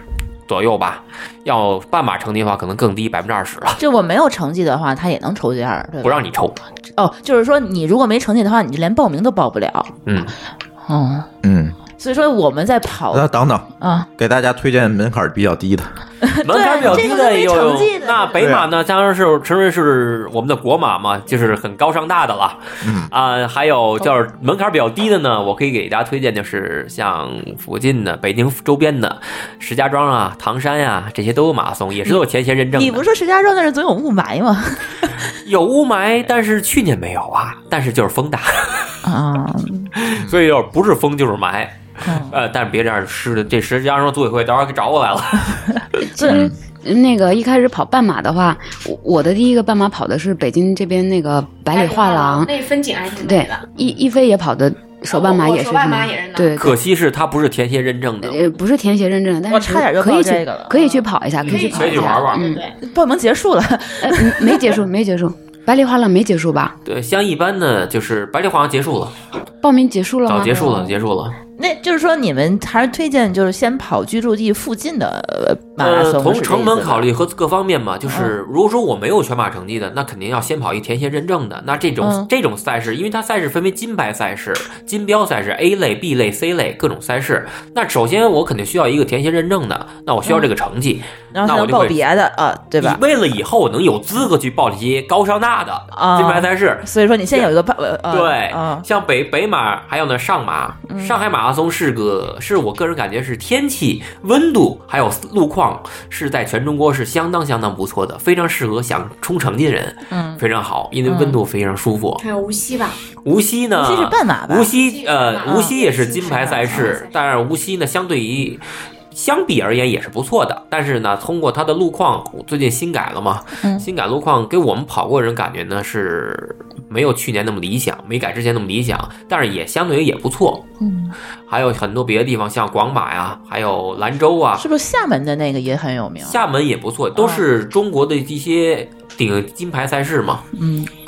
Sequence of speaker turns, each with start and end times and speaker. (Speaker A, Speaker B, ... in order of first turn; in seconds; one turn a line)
Speaker A: 0.5-3.8
Speaker B: 3.8-6.2
Speaker A: 6.0-6.6
Speaker B: 7.0-9.9
Speaker A: 10.1-10.3
Speaker B: 10.8-11.3
Speaker C: 11.4-11.8
Speaker B: 12.0-13.3
Speaker C: 13.1-15.9
Speaker B: 13.8-14.1
Speaker B: 16.2-18.4
Speaker A: 16.4-33.0
Speaker C: 16.8-17.1
Speaker C: 18.4-18.7
Speaker C: 22.8-23.1
Speaker B: 32.7-35.2
Speaker A: 35.4-39.0
Speaker B: 39.0-39.9
Speaker A: 40.0-45.8
Speaker B: 42.0-42.4
Speaker B: 46.2-46.5
Speaker D: 46.2-52.5
Speaker E: 51.7-53.7
Speaker D: 53.2-56.8
Speaker E: 55.1-56.6
Speaker A: 56.6-58.4
Speaker D: 58.2-62.6
Speaker B: 59.5-61.0
Speaker A: 61.4-62.5
Speaker E: 61.5-62.7
Speaker B: 62.8-64.8
Speaker D: 64.0-66.7
Speaker A: 66.8-69.1
Speaker D: 69.6-71.0
Speaker A: 70.3-71.3
Speaker B: 71.6-77.0
Speaker A: 75.8-92.0
Speaker B: 78.1-78.3
Speaker B: 82.0-82.3
Speaker B: 91.3-93.0
Speaker A: 92.8-97.5
Speaker B: 95.9-98.8
Speaker A: 98.1-112.2
Speaker B: 100.9-101.2
Speaker B: 110.1-110.4
Speaker B: 111.0-111.4
Speaker E: 112.2-113.0
Speaker A: 113.2-118.6
Speaker B: 113.8-114.8
Speaker E: 114.7-117.2
Speaker B: 115.4-116.9
Speaker A: 119.1-130.7
Speaker B: 123.6-123.9
Speaker B: 130.8-131.1
Speaker A: 131.5-134.6
Speaker B: 134.6-136.4
Speaker A: 136.2-140.4
Speaker B: 137.2-137.4
Speaker B: 140.6-140.9